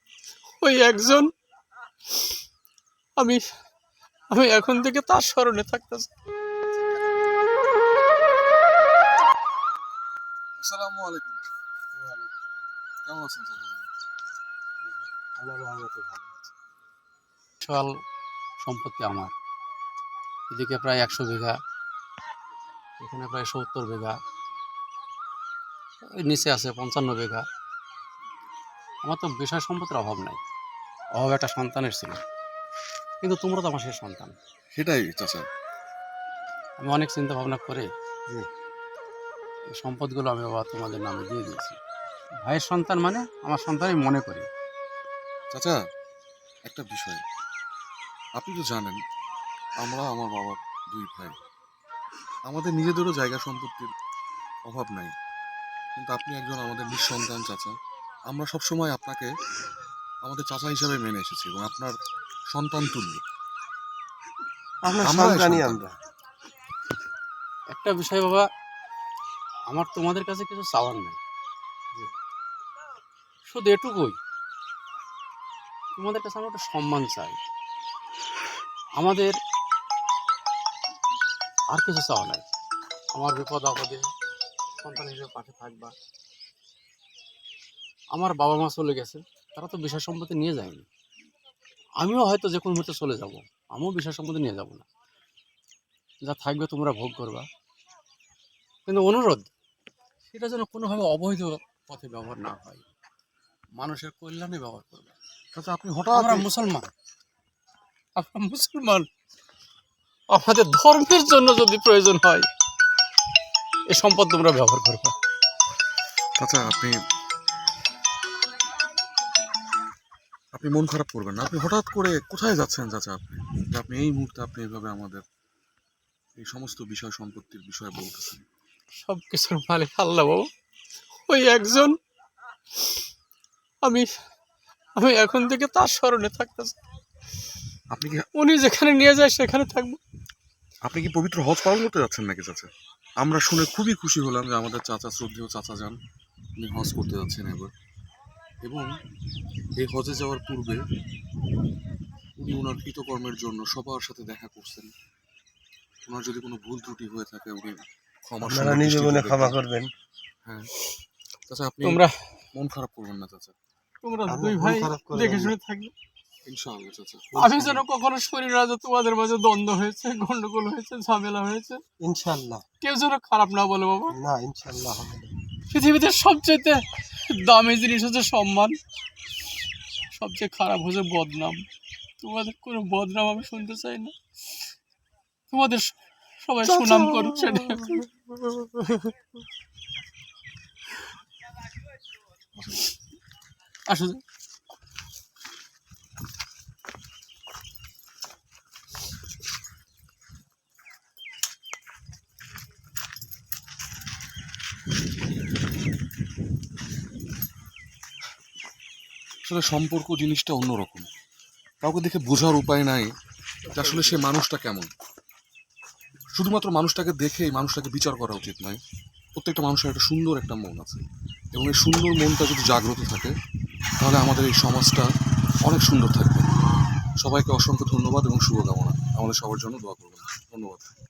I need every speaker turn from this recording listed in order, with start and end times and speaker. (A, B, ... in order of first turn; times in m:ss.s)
0:00.6-0:01.3 A
0:03.2-0:03.4 A
0:04.3-0:06.1 A
0:10.6-0:11.4 B
0:12.0-0:12.3 C
0:13.0-0:13.9 B
0:15.4-0:16.5 C
0:17.6-0:18.0 A
0:18.6-0:19.3 A
0:20.5-0:21.6 A
0:23.0-0:24.2 A
0:26.2-0:27.4 A
0:29.0-0:30.4 A
0:31.2-0:32.2 A
0:33.2-0:34.4 A
0:34.7-0:35.5 B
0:36.8-0:37.9 A
0:39.8-0:41.8 A
0:42.4-0:44.5 A
0:45.5-0:45.8 B
0:46.7-0:47.2 B
0:48.4-0:49.0 B
0:49.8-0:51.3 B
0:52.5-0:53.9 B
0:54.7-0:55.1 B
0:56.0-0:57.7 B
0:58.3-0:59.3 B
1:00.2-1:01.9 B
1:02.5-1:03.2 B
1:04.8-1:06.0 C
1:05.0-1:05.8 B
1:07.7-1:08.5 A
1:09.7-1:11.2 A
1:13.4-1:14.2 A
1:16.0-1:17.4 A
1:19.0-1:19.4 A
1:21.7-1:22.5 A
1:23.1-1:24.1 A
1:24.8-1:25.9 A
1:28.1-1:30.9 A
1:32.0-1:34.8 A
1:36.2-1:37.5 A
1:38.9-1:39.5 A
1:40.3-1:42.8 A
1:43.8-1:45.2 A
1:45.6-1:46.5 B
1:46.1-1:46.9 A
1:48.2-1:49.1 A
1:50.3-1:52.5 A
1:53.9-1:55.2 A
1:56.4-1:57.0 B
2:00.6-2:05.2 B
2:06.4-2:08.4 B
2:09.0-2:10.5 A
2:11.3-2:12.0 A
2:13.8-2:14.1 A
2:15.0-2:16.8 A
2:17.9-2:18.3 B
2:18.4-2:20.0 A
2:20.9-2:22.7 B
2:23.2-2:26.0 B
2:26.6-2:27.7 B
2:29.8-2:30.8 B
2:32.4-2:34.9 B
2:36.0-2:39.6 B
2:38.4-2:39.9 C
2:40.5-2:40.7 B
2:41.5-2:42.0 B
2:41.8-2:42.2 A
2:42.6-2:43.6 B
2:44.0-2:45.9 A
2:44.3-2:45.6 C
2:46.5-2:47.3 B
2:47.3-2:47.8 C
2:47.4-2:51.8 A
2:52.0-2:52.6 C
2:52.8-2:54.2 A
2:54.1-2:55.3 C
2:55.7-2:58.8 A
3:00.1-3:01.6 A
3:02.2-3:04.2 A
3:05.5-3:08.1 A
3:08.6-3:09.1 A
3:12.6-3:12.8 B
3:13.9-3:14.2 A
3:29.4-3:31.1 B
3:31.8-3:33.1 B
3:33.7-3:34.9 B
3:36.4-3:38.8 B
3:39.4-3:41.0 B
3:41.5-3:43.3 B
3:44.0-3:45.1 B
3:45.6-3:46.5 B
3:47.2-3:50.9 B